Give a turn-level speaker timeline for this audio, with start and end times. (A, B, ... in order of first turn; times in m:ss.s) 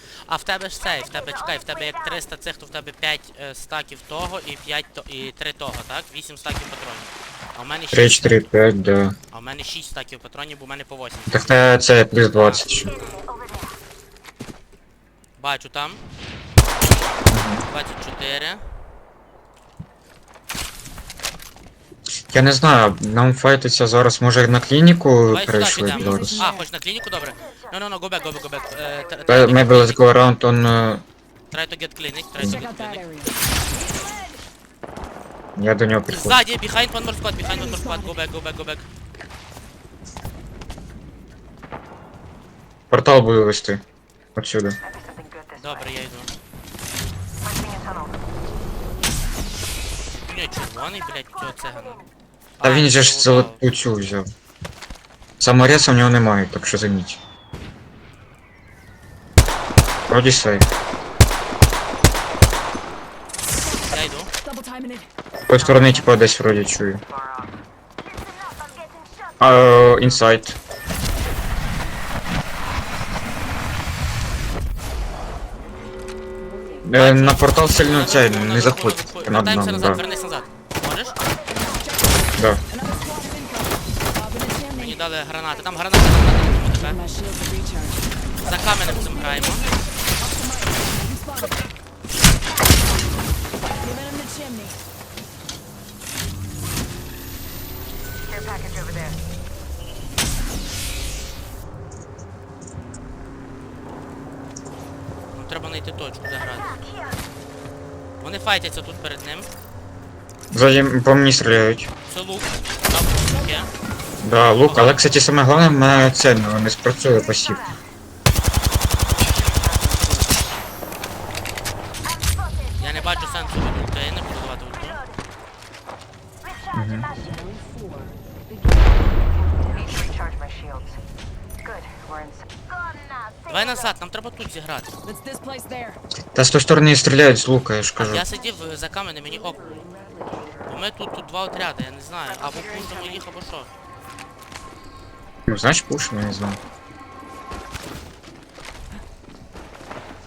0:00.2-0:08.4 A
0:07.9-0:09.2 B
0:09.3-0:11.6 A
0:11.3-0:12.9 B
0:12.3-0:13.2 A
0:15.4-0:16.0 A
0:17.3-0:17.6 B
0:17.7-0:18.6 A
0:22.3-0:26.4 B
0:25.3-0:30.0 A
0:26.2-0:26.5 C
0:29.3-0:31.0 B
0:31.5-0:33.0 A
0:32.4-0:32.6 B
0:33.8-0:34.3 C
0:35.6-0:36.4 B
0:36.1-0:38.8 A
0:42.9-0:43.8 B
0:44.4-0:44.8 B
0:45.0-0:45.4 D
0:45.6-0:46.3 A
0:47.5-0:48.0 C
0:50.2-0:52.0 A
0:52.6-0:53.6 A
0:52.6-0:54.3 B
0:55.4-0:57.2 B
1:00.1-1:00.7 B
1:03.9-1:04.3 A
1:04.5-1:05.0 C
1:05.5-1:07.0 B
1:08.7-1:09.0 C
1:09.4-1:10.6 B
1:16.8-1:20.0 B
1:17.0-1:21.2 A
1:21.6-1:22.2 C
1:22.7-1:23.7 C
1:24.2-1:24.7 C
1:24.8-1:27.0 A
1:27.0-1:28.0 C
1:28.4-1:29.7 A
1:31.1-1:31.5 D
1:34.0-1:34.7 C
1:38.6-1:39.1 C
1:45.3-1:46.8 A
1:48.2-1:49.5 A
1:50.5-1:51.9 B
1:52.1-1:53.7 A
1:54.2-1:57.7 B
1:54.6-1:55.1 A
2:02.8-2:05.0 A
2:06.7-2:07.1 B
2:09.9-2:10.9 D
2:11.8-2:12.4 D
2:13.5-2:14.9 A
2:15.2-2:15.9 C
2:16.3-2:18.2 B
2:18.0-2:19.9 A
2:20.7-2:23.7 A
2:25.5-2:26.6 B